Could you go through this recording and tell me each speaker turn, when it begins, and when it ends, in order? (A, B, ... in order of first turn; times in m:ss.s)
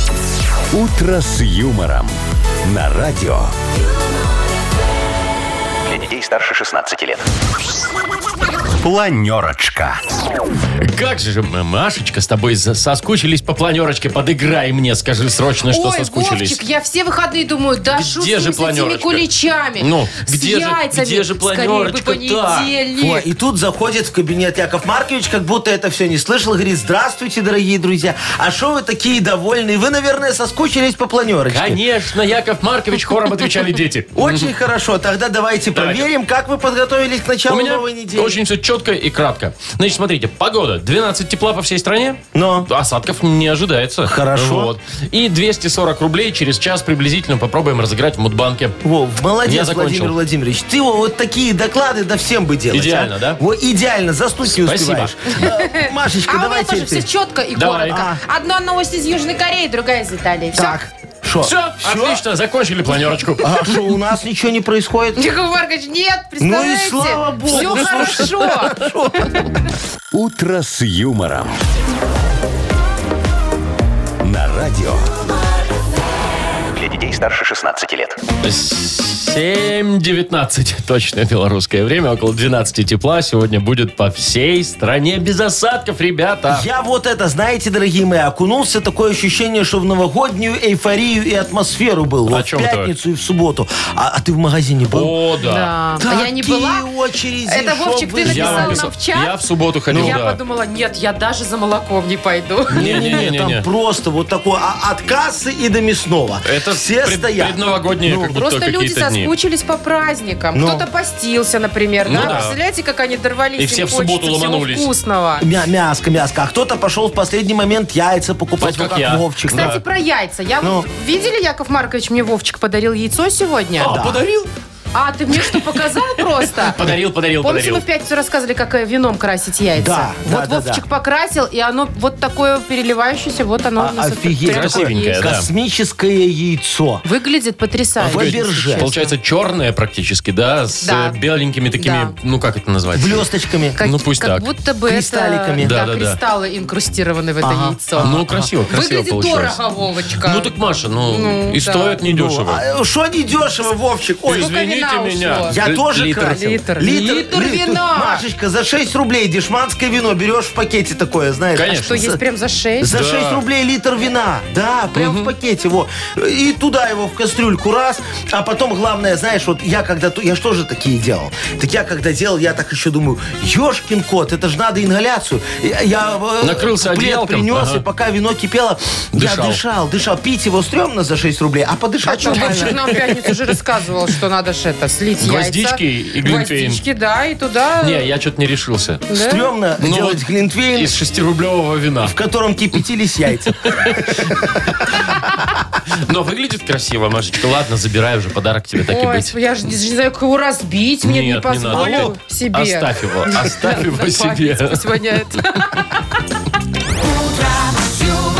0:00.7-0:03.5 A
0:05.8-0:07.2 A
0:08.8-0:10.0 A
0:10.8-0:16.6 B
0:15.7-0:23.2 C
0:17.9-0:19.3 B
0:19.8-0:22.7 B
0:22.9-0:31.8 D
0:31.5-0:34.5 B
0:34.1-0:38.4 D
0:35.7-0:36.1 B
0:37.5-0:48.8 B
0:42.3-0:42.7 D
0:44.0-0:44.7 D
0:48.8-0:57.1 D
0:49.4-0:50.1 B
0:52.7-0:53.4 B
0:54.4-0:55.2 B
0:55.4-1:00.8 C
0:57.5-0:58.0 B
0:57.9-0:58.2 D
1:00.5-1:02.2 D
1:01.4-1:03.6 B
1:03.4-1:05.3 D
1:05.2-1:09.5 C
1:06.4-1:09.4 D
1:10.1-1:11.5 A
1:14.2-1:15.1 A
1:16.7-1:18.2 A
1:18.4-1:26.7 B
1:26.5-1:35.2 D
1:32.3-1:32.9 B
1:34.9-1:35.7 B
1:35.4-1:36.8 C
1:36.0-1:38.9 D
1:37.5-1:39.3 C
1:38.2-1:40.4 B
1:39.9-1:40.2 D
1:39.9-1:43.2 C
1:42.7-1:48.3 D
1:42.7-1:43.6 B
1:46.4-1:49.3 B
1:48.3-1:55.5 C
1:50.5-1:50.8 D
1:52.0-1:52.6 B
1:52.1-1:52.4 D
1:53.6-1:54.9 B
1:55.4-1:59.8 D
1:58.6-1:59.8 B
1:59.5-2:03.9 C
2:00.6-2:00.8 D
2:03.8-2:04.5 B
2:03.8-2:04.2 D
2:04.9-2:06.8 C
2:05.4-2:07.8 B
2:07.4-2:15.3 C
2:09.8-2:10.8 D
2:13.8-2:17.0 D
2:14.4-2:15.5 B
2:17.0-2:19.1 C
2:18.0-2:18.9 D
2:18.1-2:23.3 B
2:20.8-2:21.2 C
2:21.8-2:22.1 C
2:22.9-2:23.8 D
2:23.8-2:32.0 C
2:23.8-2:24.5 B
2:24.9-2:25.8 D
2:25.6-2:26.2 B
2:27.4-2:28.5 D
2:28.0-2:29.6 B
2:30.2-2:32.6 B
2:32.1-2:34.5 D
2:34.2-2:36.6 B
2:34.4-2:35.5 C
2:35.5-2:42.2 D
2:36.2-2:38.2 C
2:41.6-2:42.0 B
2:41.8-2:42.9 C
2:42.8-3:02.8 D
2:42.9-2:43.4 B
2:44.9-2:45.3 B
2:56.4-2:57.8 B
2:59.1-2:59.6 B
3:02.0-3:08.1 C
3:02.3-3:03.5 B
3:05.2-3:06.8 B
3:07.8-3:09.0 B
3:09.1-3:09.5 C
3:09.1-3:11.0 D
3:09.8-3:12.1 B
3:12.0-3:14.7 D
3:13.4-3:15.3 B
3:15.9-3:19.3 B
3:18.9-3:26.0 C
3:21.0-3:24.8 B
3:21.7-3:22.2 D